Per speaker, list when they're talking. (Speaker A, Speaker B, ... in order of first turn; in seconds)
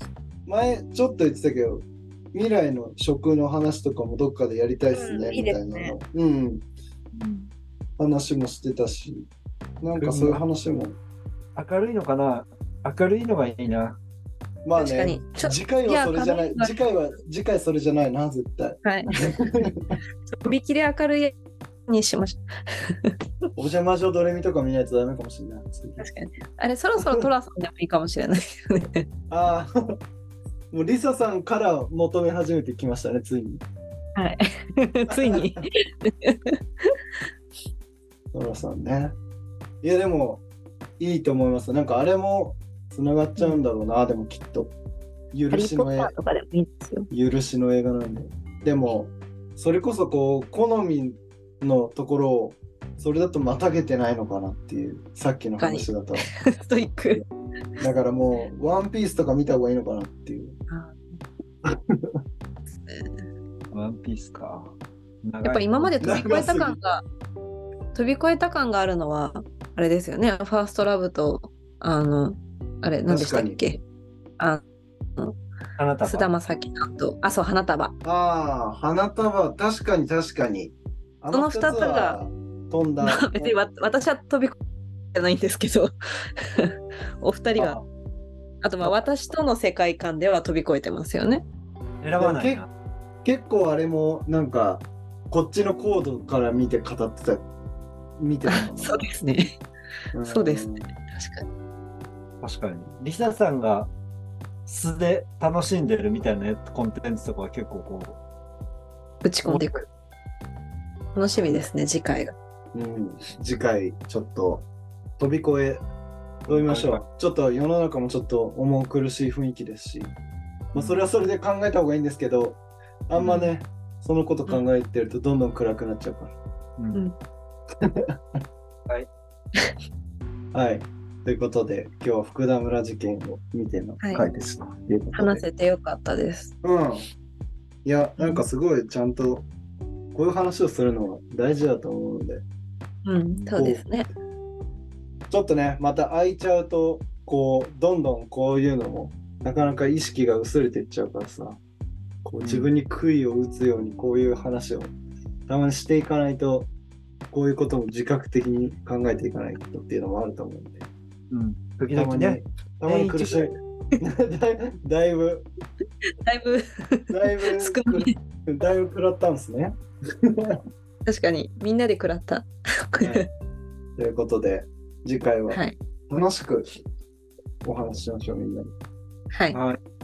Speaker A: 0.5-6.7, 8.0-9.3, 9.8-11.0, 14.6-20.0, 23.6-26.1, 27.0-27.3, 29.3-29.7, 30.7-33.6, 35.2-35.6, 38.3-39.1, 39.8-40.4, 41.0-44.7, 45.3-46.1, 47.1-56.3, 57.8-60.6, 61.6-62.2, 66.0-66.8, 73.1-73.7, 78.0-83.5, 87.6-87.8, 92.2-92.6, 93.2-97.5, 98.2-99.1, 100.1-100.9, 112.7-114.7, 115.2-115.8, 116.5-120.1, 120.7-126.3, 127.8-128.4, 130.5-135.4, 136.6-137.1, 137.8-139.5, 140.1-142.4, 143.5-143.9, 145.3-151.6, 152.2-154.9, 155.5-156.7, 157.3-160.9, 161.9-165.5, 167.1-170.6, 173.0-173.3, 174.0-176.8, 177.6-178.7
Speaker B: 4.9-5.9, 14.8-16.7, 18.8-19.7, 20.3-21.3, 21.9-23.1, 26.0-29.1, 34.2-37.0, 45.5-47.1, 55.6-57.2, 60.7-61.0, 62.7-63.2, 65.4-67.0, 67.9-73.8, 76.0-77.9, 81.3-82.2, 83.0-84.6, 85.1-85.9, 86.5-87.8, 88.6-91.5, 98.5-99.6, 100.2-101.5, 109.2-109.8, 111.1-112.3, 123.2-123.5, 135.1-136.6, 138.2-138.5, 143.1-144.1, 166.2-168.2, 171.1-173.3, 175.5-175.8, 179.3-179.6
Speaker C: 7.1-7.5, 10.0-10.4, 11.6-14.0, 63.7-66.2, 75.8-76.3, 92.0-92.7, 102.4-103.9, 104.7-108.2, 116.5-117.0, 120.8-121.0, 152.4-152.7, 161.3-163.4, 179.5-179.8